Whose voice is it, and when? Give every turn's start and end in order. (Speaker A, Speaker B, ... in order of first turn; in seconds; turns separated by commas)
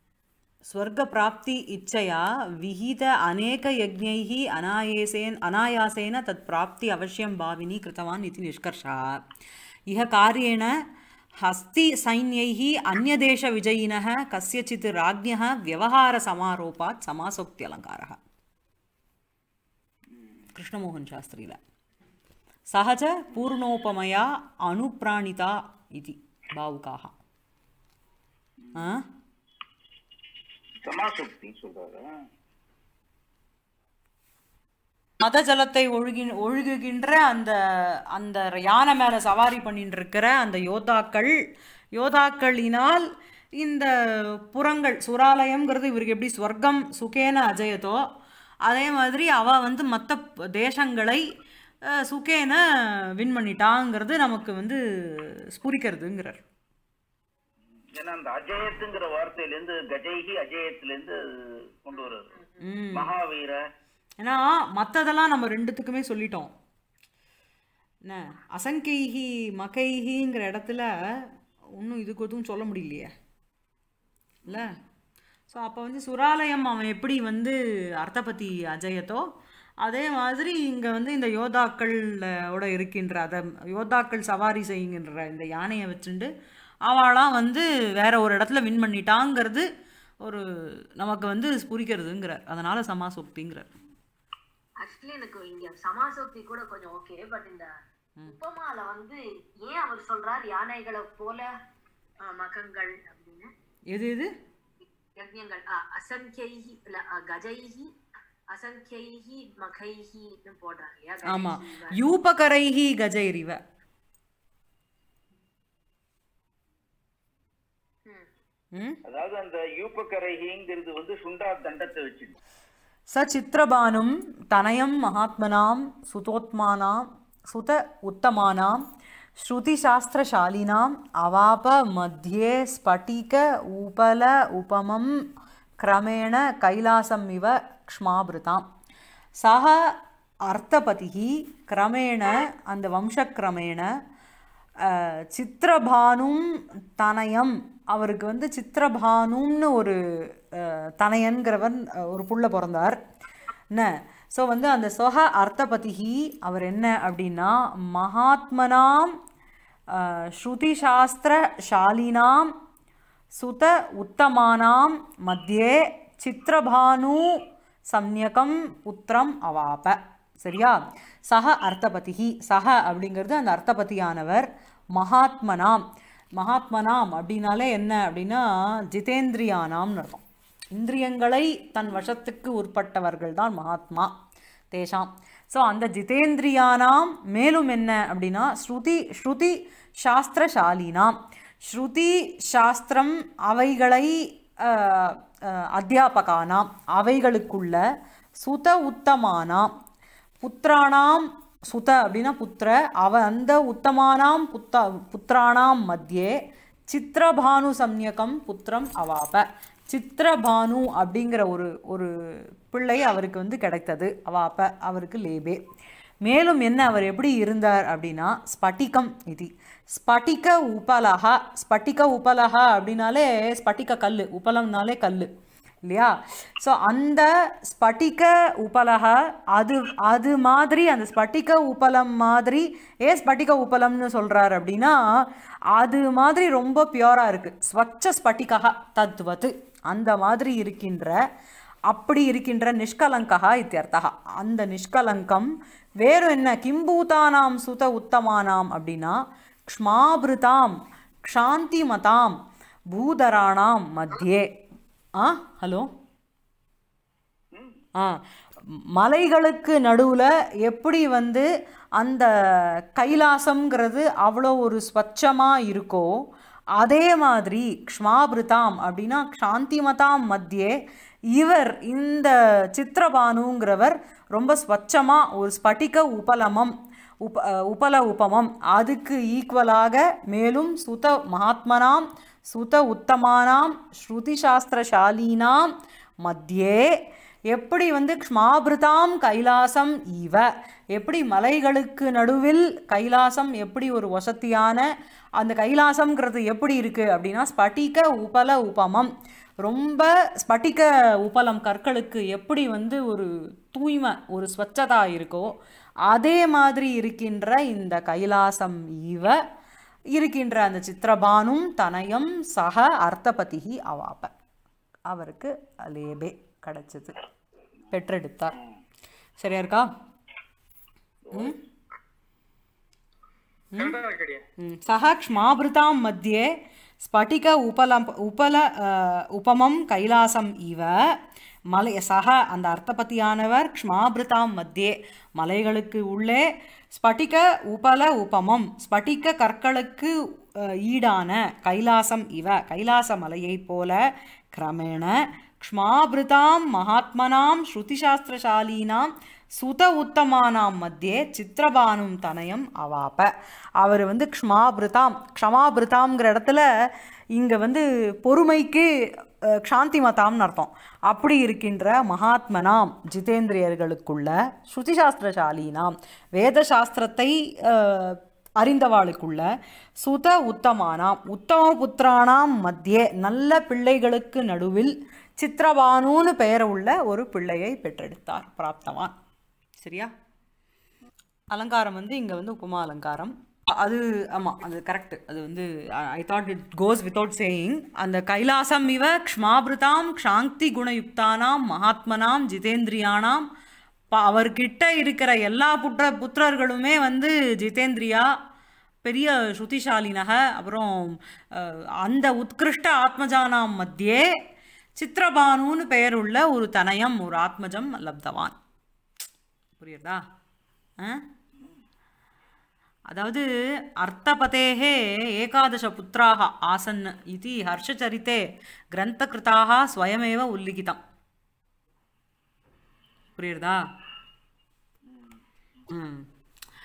Speaker A: 0.7-9.2, Speaker A: 9.9-10.7, Speaker A: 11.4-18.2, Speaker A: 20.5-21.6, Speaker A: 22.7-27.1, Speaker A: 28.7-29.0, Speaker B: 30.8-32.0, Speaker A: 35.2-41.3, Speaker A: 41.9-43.1, Speaker A: 43.6-48.0, Speaker A: 48.6-51.2, Speaker A: 51.9-56.4, Speaker B: 57.9-62.3, Speaker A: 62.6-63.1, Speaker B: 62.9-63.6, Speaker A: 64.2-66.5, Speaker A: 68.0-73.1, Speaker A: 74.5-74.8, Speaker A: 75.5-79.2, Speaker A: 79.8-86.3, Speaker A: 86.9-89.7, Speaker A: 90.2-93.7, Speaker C: 94.8-97.7, Speaker C: 98.2-101.5, Speaker C: 102.2-103.5, Speaker A: 103.9-104.3, Speaker C: 105.2-107.9, Speaker C: 108.5-112.0, Speaker A: 111.2-113.6, Speaker B: 119.0-122.3, Speaker A: 123.1-128.8, Speaker A: 129.4-135.1, Speaker A: 135.8-138.7, Speaker A: 139.4-139.8, Speaker A: 140.5-143.9, Speaker A: 144.8-150.0, Speaker A: 150.5-153.0, Speaker A: 153.7-159.2, Speaker A: 159.9-162.5, Speaker A: 163.4-175.8, Speaker A: 176.4-184.1, Speaker A: 184.7-191.2, Speaker A: 191.7-197.8, Speaker A: 198.4-199.7, Speaker A: 200.4-206.3, Speaker A: 206.9-212.1, Speaker A: 212.7-215.6, Speaker A: 216.2-225.3, Speaker A: 225.8-235.0, Speaker A: 235.7-241.2, Speaker A: 241.9-252.4, Speaker A: 252.9-254.5, Speaker A: 255.2-255.9, Speaker A: 258.9-261.5, Speaker A: 262.0-266.1, Speaker A: 266.8-270.7, Speaker A: 271.3-285.7, Speaker A: 286.2-286.9, Speaker A: 287.5-294.8, Speaker A: 295.4-299.1, Speaker A: 299.6-305.5, Speaker A: 306.1-309.4, Speaker A: 310.1-314.3, Speaker A: 315.1-317.1, Speaker A: 317.9-318.5, Speaker A: 319.4-319.9, Speaker B: 321.2-321.6, Speaker A: 321.3-321.6, Speaker A: 323.7-324.0, Speaker B: 323.8-324.4, Speaker A: 324.6-326.5, Speaker A: 327.0-331.0, Speaker A: 331.7-344.0, Speaker A: 344.5-356.6, Speaker A: 357.4-358.9, Speaker A: 359.5-369.5, Speaker A: 370.0-379.1, Speaker A: 379.8-380.1, Speaker A: 381.5-393.4, Speaker A: 394.1-398.3, Speaker A: 399.0-404.3, Speaker A: 405.0-408.6, Speaker A: 409.8-410.2, Speaker A: 413.1-421.0, Speaker A: 423.4-423.8, Speaker A: 425.9-426.3